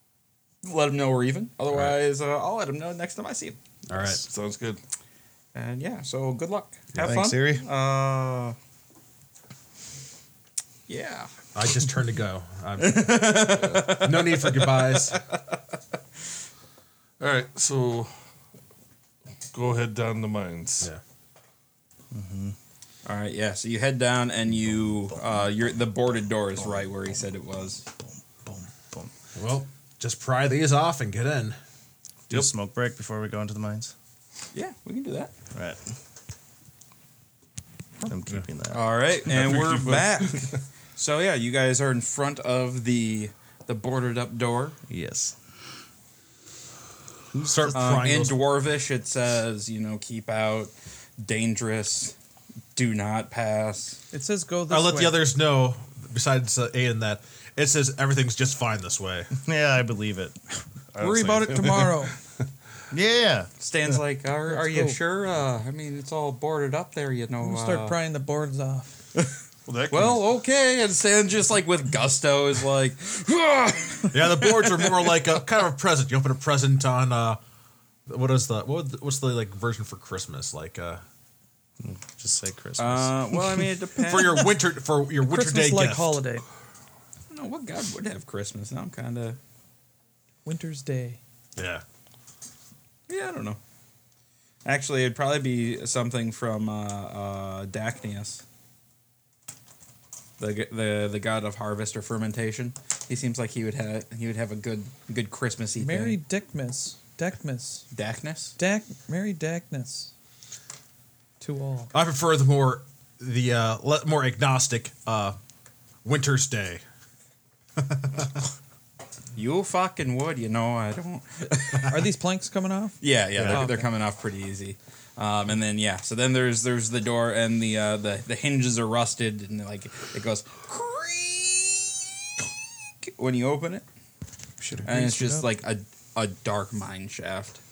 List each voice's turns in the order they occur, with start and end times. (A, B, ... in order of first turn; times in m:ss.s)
0:00.6-0:03.6 A
0:01.7-0:02.0 B
0:03.9-0:04.2 B
0:04.2-0:04.8 C
0:05.5-0:08.6 A
0:07.0-0:07.6 D
0:10.9-0:11.3 A
0:11.5-0:15.2 B
0:12.8-0:15.1 A
0:17.2-0:18.1 C
0:19.5-0:20.9 C
0:22.1-0:22.6 D
0:23.0-0:27.8 A
0:28.4-0:29.1 D
0:29.3-0:31.6 B
0:32.3-0:33.9 D
0:34.5-0:35.3 A
0:35.5-0:35.8 D
0:38.0-0:38.8 D
0:38.7-0:44.8 A
0:39.2-0:40.6 C
0:44.9-0:45.4 D
0:47.3-0:48.1 D
0:47.5-0:48.4 B
0:47.7-0:52.2 A
0:52.7-0:54.0 A
0:54.1-0:55.2 E
0:54.7-0:59.3 B
0:59.4-1:00.4 D
1:00.9-1:02.4 C
1:01.0-1:02.2 E
1:02.9-1:04.0 D
1:03.6-1:08.0 A
1:04.5-1:05.0 E
1:07.4-1:09.0 E
1:09.6-1:10.2 C
1:09.9-1:15.1 A
1:14.1-1:17.4 B
1:18.1-1:21.0 B
1:21.8-1:23.7 D
1:22.8-1:24.5 A
1:24.0-1:26.2 B
1:25.2-1:26.4 E
1:27.3-1:29.4 A
1:30.4-1:31.2 E
1:31.6-1:31.8 B
1:33.1-1:33.6 A
1:34.6-1:38.4 A
1:40.4-1:46.2 A
1:45.8-1:47.9 E
1:47.9-1:48.6 A
1:48.6-1:50.1 E
1:51.4-1:51.9 E
1:51.9-1:55.4 B
1:56.0-1:56.8 B
1:57.8-1:58.3 B
1:59.3-2:02.0 A
2:01.9-2:03.9 E
2:03.0-2:12.0 A
2:13.0-2:13.8 A
2:14.6-2:15.4 E
2:14.8-2:17.6 A